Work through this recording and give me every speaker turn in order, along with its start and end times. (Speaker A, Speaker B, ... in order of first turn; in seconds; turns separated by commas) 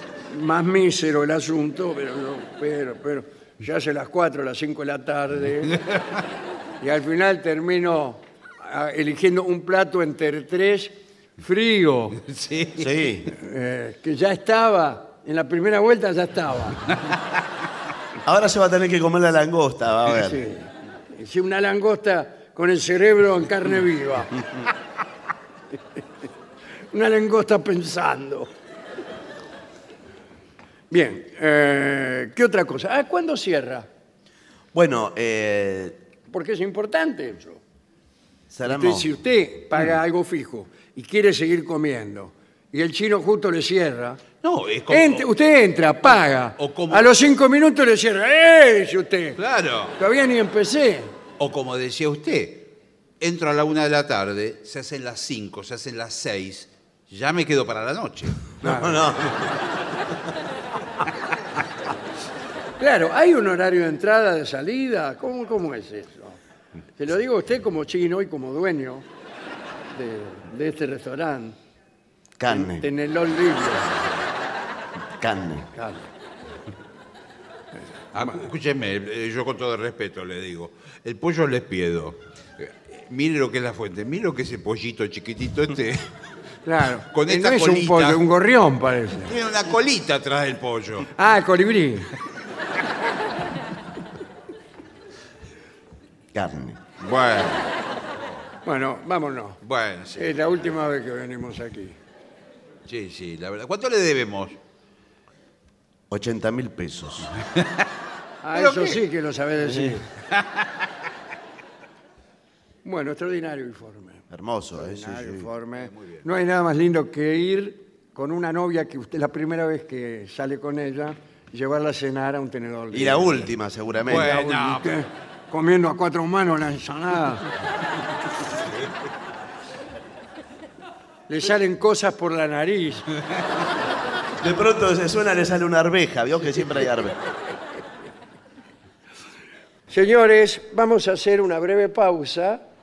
Speaker A: 0.2-5.8, Speaker A: 6.8-12.2, Speaker B: 12.2-13.0, Speaker C: 12.8-13.3, Speaker A: 13.3-16.8, Speaker C: 18.2-20.4, Speaker A: 20.1-24.5, Speaker A: 26.9-28.5, Speaker A: 30.9-33.9, Speaker C: 34.7-36.0, Speaker A: 36.3-37.6, Speaker C: 38.5-39.1, Speaker A: 38.6-44.2, Speaker B: 44.4-45.3, Speaker A: 44.9-49.4, Speaker B: 46.1-47.1, Speaker B: 49.4-50.0, Speaker A: 50.0-51.1, Speaker B: 51.4-58.5, Speaker C: 58.6-59.5, Speaker A: 58.6-59.0, Speaker A: 62.8-66.4, Speaker A: 67.0-69.1, Speaker A: 69.9-71.6, Speaker C: 72.4-72.9, Speaker A: 72.5-73.9, Speaker C: 75.2-75.7, Speaker A: 75.8-76.1, Speaker B: 78.1-86.1, Speaker A: 86.6-89.3, Speaker B: 87.1-88.2, Speaker B: 89.3-91.1, Speaker A: 91.1-92.1, Speaker C: 96.3-96.8, Speaker B: 97.0-97.7, Speaker A: 98.6-99.6, Speaker B: 99.6-100.6, Speaker A: 100.2-102.0, Speaker B: 102.9-104.6, Speaker C: 106.1-107.3, Speaker B: 107.5-107.9, Speaker A: 108.4-110.1, Speaker B: 108.5-109.0, Speaker C: 109.6-110.0, Speaker B: 110.4-110.7, Speaker A: 112.8-114.2, Speaker C: 114.3-115.5, Speaker A: 114.7-123.5, Speaker B: 115.8-116.2, Speaker C: 122.9-124.3, Speaker B: 124.0-125.0, Speaker A: 124.1-127.5, Speaker A: 131.3-133.1, Speaker C: 134.4-137.2, Speaker A: 139.9-142.6